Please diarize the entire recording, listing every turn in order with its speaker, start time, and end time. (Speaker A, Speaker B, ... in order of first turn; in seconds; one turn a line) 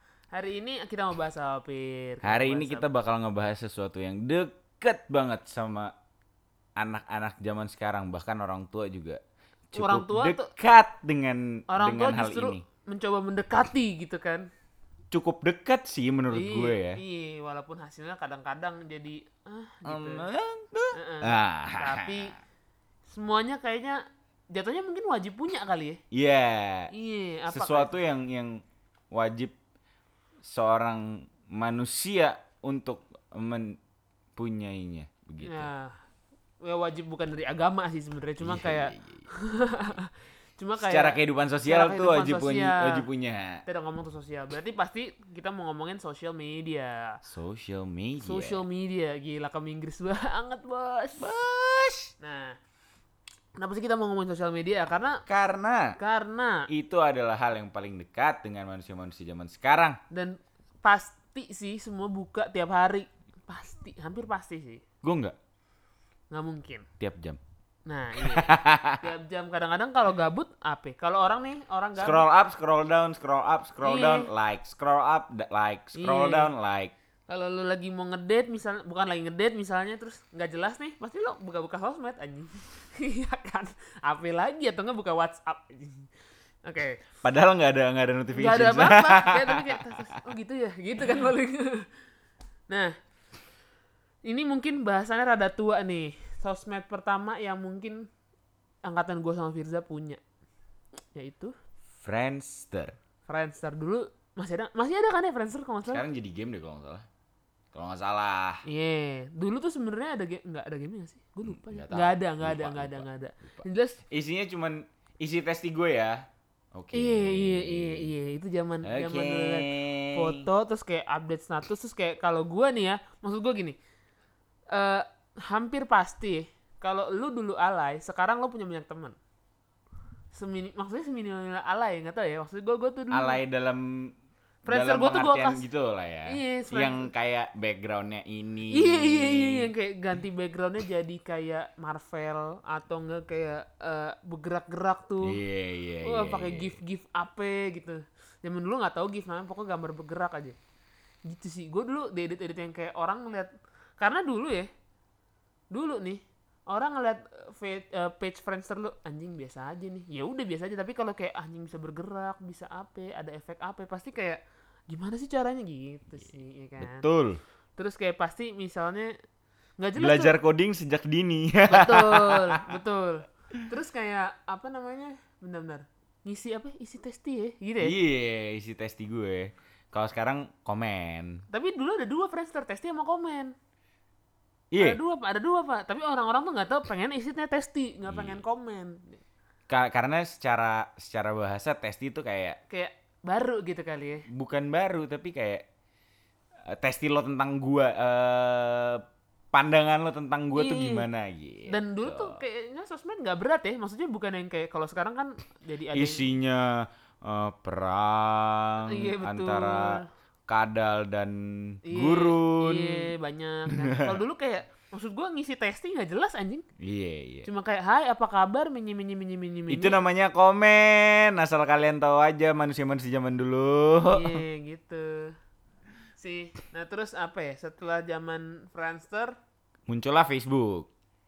Speaker A: 0.3-2.8
Speaker B: 2.2-5.9
Speaker B: 6.8-12.6
Speaker A: 9.8-10.5
Speaker A: 11.7-14.5
Speaker B: 15.1-17.0
Speaker A: 16.3-20.3
Speaker B: 19.9-22.3
Speaker A: 20.9-22.4
Speaker A: 23.1-26.0
Speaker B: 26.1-26.9
Speaker A: 26.9-28.0
Speaker B: 27.5-29.6
Speaker B: 30.4-33.8
Speaker B: 34.4-35.7
Speaker A: 35.4-36.0
Speaker A: 36.6-43.1
Speaker B: 38.4-39.3
Speaker B: 40.8-43.6
Speaker A: 43.7-47.2
Speaker B: 47.2-48.6
Speaker A: 48.2-51.3
Speaker B: 51.2-52.1
Speaker A: 52.2-52.6
Speaker A: 53.6-55.2
Speaker B: 55.3-56.0
Speaker A: 56.0-56.7
Speaker B: 56.7-60.0
Speaker A: 60.1-64.8
Speaker B: 65.0-65.4
Speaker A: 66.3-66.9
Speaker B: 67.0-67.4
Speaker A: 67.9-72.3
Speaker B: 68.2-69.0
Speaker B: 72.0-76.9
Speaker A: 73.8-74.3
Speaker A: 76.0-76.5
Speaker A: 77.3-86.1
Speaker A: 86.6-87.0
Speaker B: 87.2-90.0
Speaker A: 88.3-91.9
Speaker A: 92.7-93.0
Speaker A: 94.2-98.1
Speaker A: 98.9-100.2
Speaker A: 101.1-101.5
Speaker B: 102.0-103.0
Speaker A: 103.3-106.0
Speaker B: 105.9-107.1
Speaker B: 107.7-108.6
Speaker A: 108.7-114.0
Speaker B: 111.5-118.1
Speaker A: 116.9-123.8
Speaker B: 118.8-120.5
Speaker A: 124.7-129.2
Speaker A: 130.3-133.4
Speaker B: 133.1-134.1
Speaker A: 134.7-135.7
Speaker B: 134.7-139.7
Speaker A: 136.3-137.1
Speaker A: 138.7-145.4
Speaker B: 145.2-146.8
Speaker A: 146.0-150.6
Speaker A: 151.2-154.7
Speaker A: 155.7-167.1
Speaker B: 166.8-167.4
Speaker A: 167.8-169.2
Speaker A: 169.8-170.4
Speaker B: 170.0-172.8
Speaker A: 171.7-177.9
Speaker B: 177.8-181.4
Speaker A: 181.5-183.6
Speaker B: 184.7-185.0
Speaker A: 184.8-189.2
Speaker B: 188.1-188.4
Speaker B: 189.7-192.6
Speaker A: 192.7-194.3
Speaker B: 194.3-195.7
Speaker B: 196.7-202.4
Speaker A: 200.6-201.1
Speaker A: 201.7-206.3
Speaker B: 205.9-213.1
Speaker A: 208.9-210.1
Speaker A: 211.9-216.7
Speaker B: 213.8-214.2
Speaker B: 216.8-217.5
Speaker A: 217.4-220.0
Speaker B: 219.7-224.4
Speaker A: 224.1-225.4
Speaker A: 226.2-229.4
Speaker B: 229.9-230.9